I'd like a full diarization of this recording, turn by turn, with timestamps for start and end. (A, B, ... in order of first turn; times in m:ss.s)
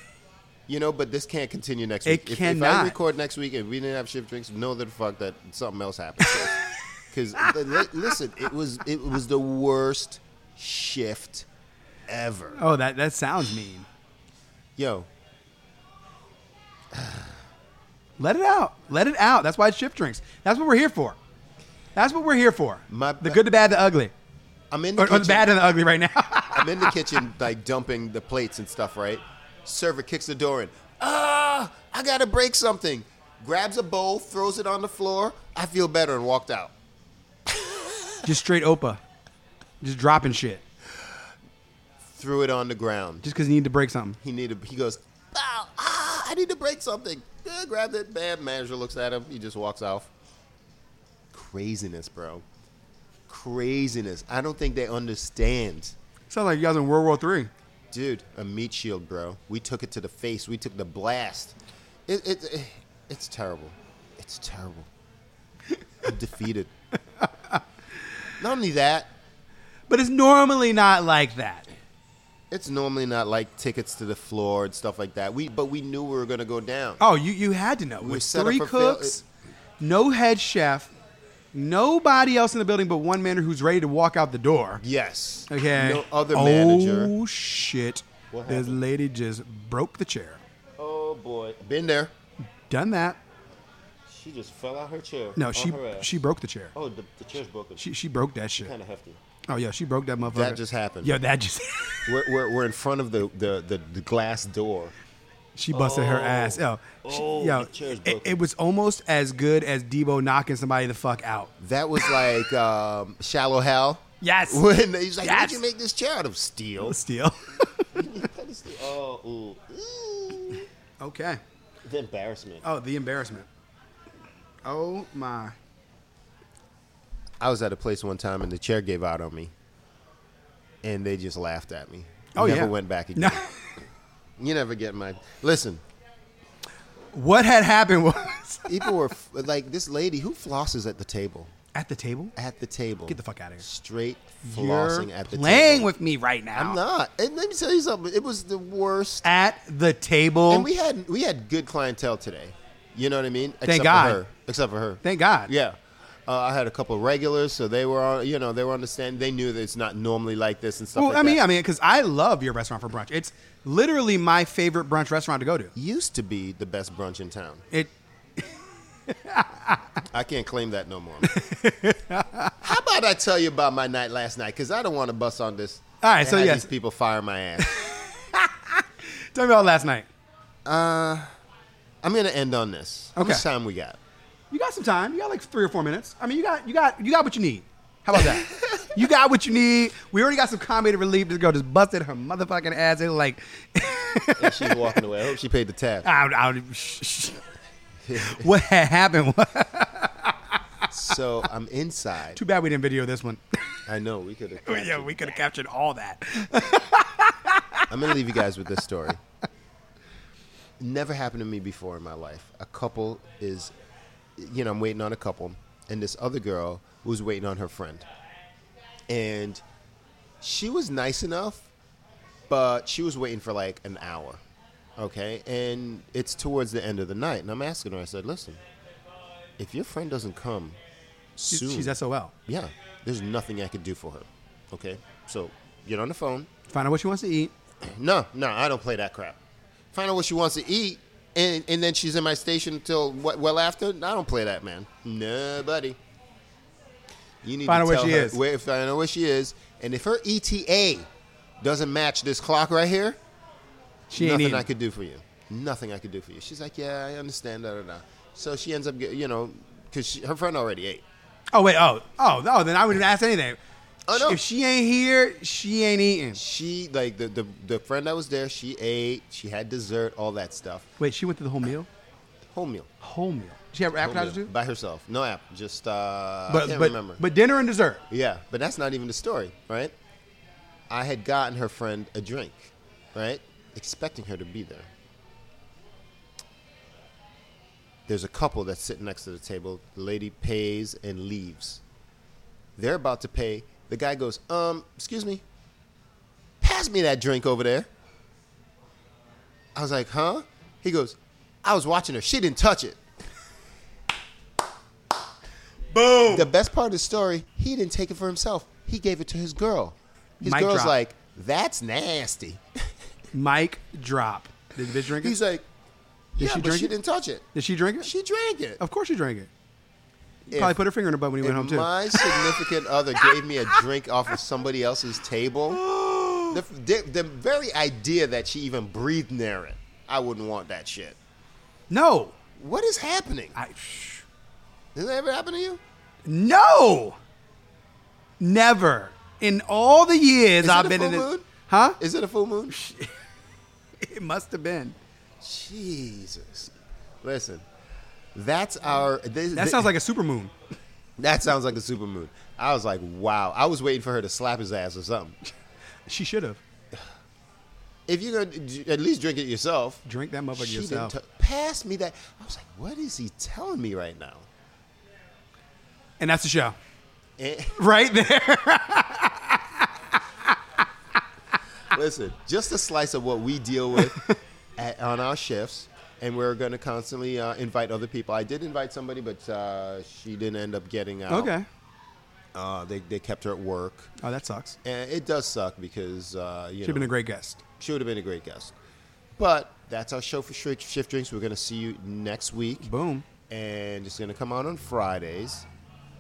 0:00.7-0:11.5 A
0:02.0-0:03.0 B
0:07.4-0:07.8 B
0:12.1-0:12.6 A
0:12.6-0:13.9 B
0:14.8-0:15.1 A
0:16.9-0:17.3 A
0:18.2-0:21.2 B
0:22.0-0:24.1 B
0:22.9-0:23.4 A
0:24.7-0:25.6 A
0:25.0-0:26.9 B
0:26.5-0:36.7 A
0:38.2-0:39.0 B
0:39.8-0:40.6 B
0:42.1-0:43.2 A
0:43.2-0:44.2 B
0:44.2-0:50.1 A
0:51.3-0:52.4 A
0:53.3-0:56.0 A
0:56.3-0:57.5 B
0:57.9-1:01.6 A
1:02.1-1:04.9 A
1:06.0-1:06.7 A
1:08.4-1:09.1 A
1:09.9-1:11.7 B
1:12.5-1:17.0 A
1:17.0-1:19.2 B
1:18.0-1:19.2 A
1:19.8-1:20.9 B
1:21.5-1:24.8 B
1:24.8-1:27.1 A
1:25.5-1:30.4 B
1:28.3-1:28.8 A
1:30.8-1:32.1 A
1:32.7-1:33.2 B
1:34.1-1:36.1 A
1:35.4-1:36.7 B
1:36.7-1:37.9 A
1:37.8-1:38.7 B
1:38.6-1:39.2 A
1:39.5-1:42.2 B
1:40.3-1:41.2 A
1:42.1-1:44.9 A
1:45.6-1:51.5 B
1:45.7-1:48.4 A
1:51.6-1:57.0 A
1:54.2-1:54.6 B
1:55.2-1:55.6 B
1:56.8-1:58.1 B
1:57.9-2:00.6 A
2:01.0-2:01.4 B
2:01.8-2:02.6 A
2:02.6-2:03.5 B
2:04.6-2:05.6 B
2:07.4-2:09.5 A
2:10.8-2:13.5 A
2:12.4-2:13.5 B
2:14.4-2:15.8 A
2:17.1-2:18.9 B
2:18.7-2:21.5 A
2:21.7-2:22.3 B
2:22.4-2:25.9 A
2:23.1-2:23.6 B
2:24.4-2:26.8 B
2:26.5-2:29.3 A
2:29.2-2:30.7 B
2:30.5-2:35.8 A
2:33.6-2:34.2 B
2:35.0-2:35.5 B
2:36.3-2:41.4 A
2:41.0-2:45.7 B
2:45.8-2:47.6 A
2:49.1-2:49.8 B
2:50.1-2:51.3 A
2:51.2-2:52.6 B
2:52.6-2:57.8 A
2:56.0-2:56.7 B
2:57.6-3:00.1 B
3:00.6-3:01.3 A
3:02.0-3:04.0 A
3:03.2-3:03.4 B
3:04.5-3:14.8 B
3:08.1-3:08.8 A
3:14.4-3:16.1 A
3:16.0-3:17.4 B
3:18.0-3:18.5 A
3:18.2-3:20.4 B
3:20.9-3:22.4 A
3:22.3-3:23.4 B
3:23.9-3:25.4 A
3:24.6-3:27.8 B
3:27.9-3:29.2 A
3:30.8-3:33.7 A
3:34.4-3:38.1 A
3:39.1-3:39.6 A
3:40.4-3:41.7 A
3:42.5-3:44.4 A
3:45.0-3:48.6 A
3:49.6-3:50.8 A
3:51.4-3:56.5 A
3:51.5-3:52.3 B
3:56.7-3:57.5 B
3:57.9-3:59.4 A
3:59.9-4:06.0 A
4:07.4-4:11.1 A
4:07.7-4:08.4 B
4:11.6-4:13.2 A
4:14.1-4:14.7 B
4:14.2-4:21.0 A
4:21.5-4:23.6 B
4:24.1-4:24.4 A
4:24.1-4:26.4 B
4:26.3-4:30.9 A
4:31.0-4:31.9 B
4:32.5-4:32.9 A
4:33.0-4:34.5 B
4:33.9-4:37.2 A
4:36.5-4:38.0 B
4:38.1-4:39.9 A
4:40.9-4:44.9 A
4:48.1-4:51.8 A
4:52.8-4:55.4 A
4:56.6-4:57.9 A
4:59.8-5:03.0 A
5:05.9-5:06.5 B
5:06.3-5:12.6 A
5:10.4-5:11.0 B
5:13.3-5:15.4 B
5:14.9-5:15.6 A
5:16.4-5:17.5 A
5:16.4-5:16.9 B
5:17.5-5:18.1 B
5:18.0-5:18.8 A
5:18.8-5:19.5 B
5:20.5-5:22.6 B
5:20.5-5:20.8 A
5:21.4-5:25.8 A
5:23.2-5:23.8 B
5:25.7-5:26.6 B
5:26.5-5:31.2 A
5:31.9-5:32.3 B
5:32.6-5:33.6 A
5:33.6-5:34.2 B
5:35.0-5:35.8 A
5:36.3-5:37.2 B
5:38.4-5:42.0 B
5:40.6-5:42.8 A
5:42.7-5:43.2 B
5:44.0-5:45.0 B
5:45.4-5:47.6 A
5:48.4-5:49.9 A
5:49.5-5:50.5 B
5:51.2-5:55.4 A
5:56.1-5:56.6 B
5:58.1-6:00.0 A
6:00.0-6:01.2 B
6:00.6-6:04.5 A
6:06.2-6:06.8 B
6:07.4-6:07.8 A
6:07.8-6:09.8 B
6:11.9-6:14.2 A
6:14.0-6:14.4 B
6:14.8-6:21.5 A
6:21.3-6:21.7 B
6:22.6-6:24.1 A
6:24.2-6:24.8 B
6:24.8-6:27.1 A
6:26.8-6:27.6 B
6:27.8-6:28.7 A
6:29.4-6:32.9 A
6:32.8-6:33.3 B
6:33.5-6:35.7 A